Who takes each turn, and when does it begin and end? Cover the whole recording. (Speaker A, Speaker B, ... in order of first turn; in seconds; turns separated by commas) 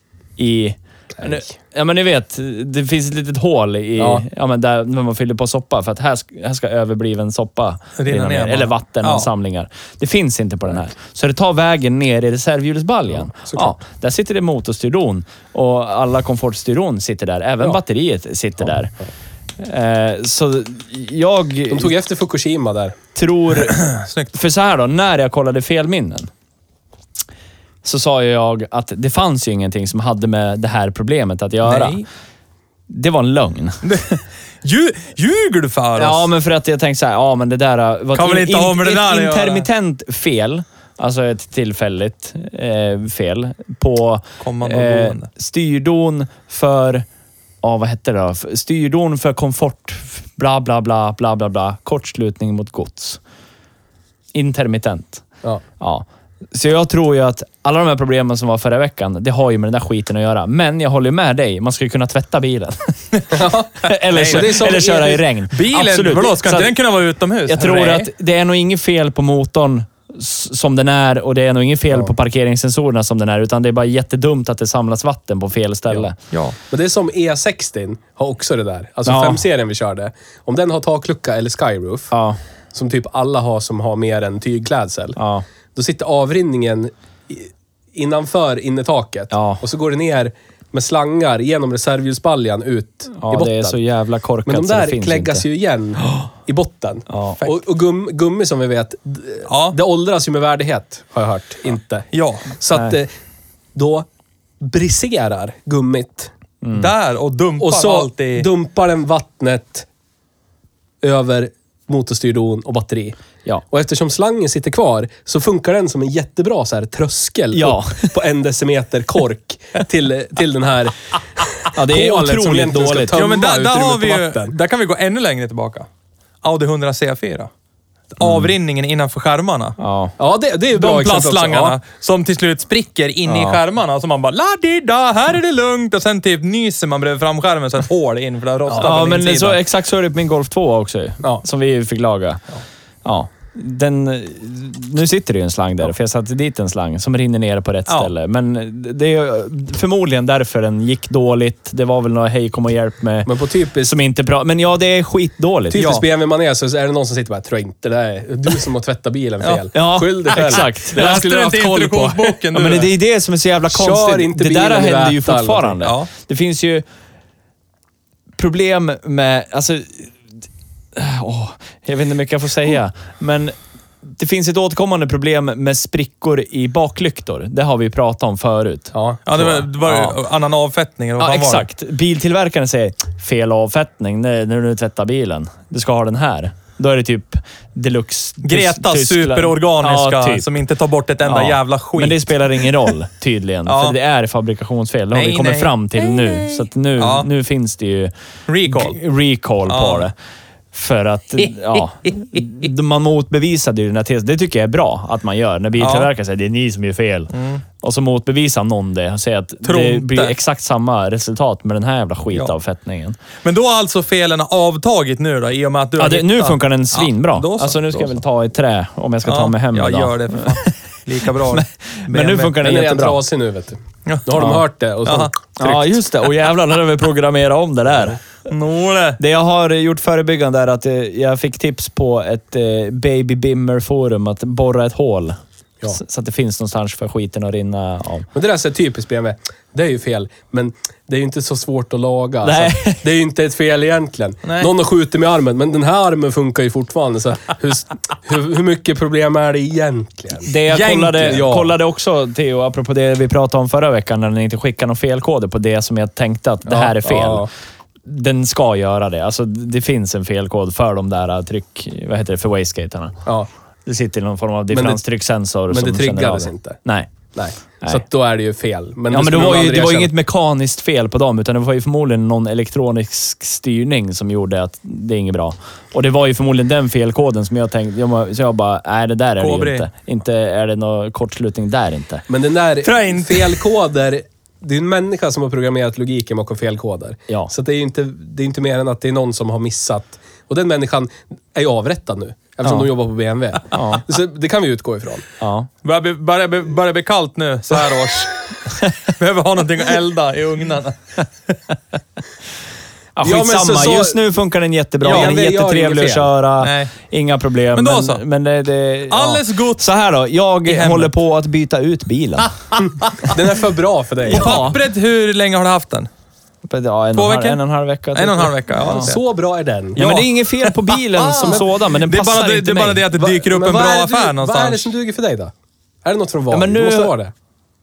Speaker A: 0.4-18.9, Speaker B: 4.0-4.2, Speaker C: 8.0-9.3, Speaker B: 13.3-13.7, Speaker A: 19.6-21.9, Speaker B: 21.7-23.0, Speaker A: 23.1-26.3, Speaker C: 23.7-24.3, Speaker A: 27.8-32.0, Speaker C: 31.6-32.0, Speaker A: 32.9-34.0, Speaker C: 33.8-36.3, Speaker A: 36.0-47.0, Speaker C: 38.1-39.7, Speaker C: 44.4-45.3, Speaker A: 47.6-53.2, Speaker A: 54.3-55.2, Speaker A: 55.8-66.7, Speaker B: 63.3-65.2, Speaker C: 64.1-64.8, Speaker C: 65.5-68.1, Speaker A: 67.5-76.2, Speaker C: 76.3-76.5, Speaker B: 76.7-82.1, Speaker A: 79.0-79.4, Speaker A: 82.1-82.4, Speaker B: 82.7-85.2, Speaker A: 85.2-85.4, Speaker B: 85.7-93.8, Speaker A: 89.3-89.6, Speaker A: 93.1-95.5, Speaker B: 94.5-103.1, Speaker A: 97.1-97.4, Speaker C: 99.5-99.8, Speaker C: 102.1-102.5, Speaker B: 103.7-104.1, Speaker B: 104.6-106.3, Speaker A: 106.6-106.9, Speaker C: 106.7-108.5, Speaker B: 107.6-109.9, Speaker B: 111.0-113.2, Speaker B: 113.7-124.5, Speaker A: 117.5-118.2, Speaker A: 121.7-123.2, Speaker C: 123.1-125.9, Speaker C: 126.4-127.5, Speaker C: 128.2-129.8, Speaker A: 129.8-130.1, Speaker B: 130.2-131.8, Speaker C: 130.7-139.6, Speaker A: 133.3-133.6, Speaker A: 138.8-142.4, Speaker A: 143.0-155.9, Speaker B: 153.2-153.9, Speaker B: 155.7-161.3, Speaker C: 155.7-156.0, Speaker A: 159.7-166.8, Speaker C: 160.3-162.9, Speaker B: 163.7-165.8, Speaker C: 165.8-166.1, Speaker A: 168.4-170.1, Speaker A: 170.9-180.2, Speaker B: 178.9-179.5, Speaker C: 179.3-181.7, Speaker A: 181.2-190.4, Speaker C: 188.4-192.9, Speaker A: 191.2-198.1, Speaker C: 193.7-194.0, Speaker C: 195.1-197.3, Speaker C: 198.5-199.0, Speaker A: 198.6-200.1, Speaker C: 199.7-200.1, Speaker A: 200.7-213.2, Speaker C: 205.8-206.1, Speaker C: 207.3-207.6, Speaker C: 209.6-210.3, Speaker C: 213.4-218.2, Speaker A: 216.0-220.7, Speaker C: 219.2-222.6, Speaker A: 221.2-223.2, Speaker B: 222.6-225.9, Speaker C: 224.1-224.4, Speaker A: 224.4-224.6, Speaker C: 225.0-225.3, Speaker A: 225.6-228.2, Speaker C: 228.5-229.2, Speaker A: 229.2-238.3, Speaker B: 238.3-250.5, Speaker A: 242.4-243.0, Speaker C: 244.4-244.7, Speaker A: 250.4-257.5, Speaker C: 250.7-251.4, Speaker B: 251.2-251.7, Speaker B: 256.6-257.5, Speaker A: 258.0-263.2, Speaker A: 263.9-267.1, Speaker B: 264.7-265.0, Speaker B: 265.7-266.8, Speaker B: 267.3-270.1, Speaker A: 269.1-282.3, Speaker C: 279.4-279.9, Speaker B: 282.3-295.3, Speaker C: 282.8-283.6, Speaker A: 292.6-292.9, Speaker A: 293.7-294.0, Speaker A: 295.4-295.7, Speaker C: 295.8-301.2, Speaker A: 303.1-312.5, Speaker B: 303.2-304.2, Speaker B: 305.0-306.3, Speaker C: 305.0-305.3, Speaker C: 306.6-306.9, Speaker C: 307.7-308.2, Speaker C: 309.1-309.8, Speaker C: 310.6-311.1, Speaker C: 312.7-313.4, Speaker B: 313.2-314.7, Speaker A: 314.3-314.8, Speaker C: 314.3-316.1, Speaker A: 316.6-319.1, Speaker C: 317.1-317.6, Speaker C: 318.1-319.2, Speaker B: 318.9-320.0, Speaker A: 319.9-323.1, Speaker C: 320.0-324.9, Speaker B: 321.4-321.6, Speaker B: 323.1-325.5, Speaker B: 326.0-327.3, Speaker A: 326.5-327.1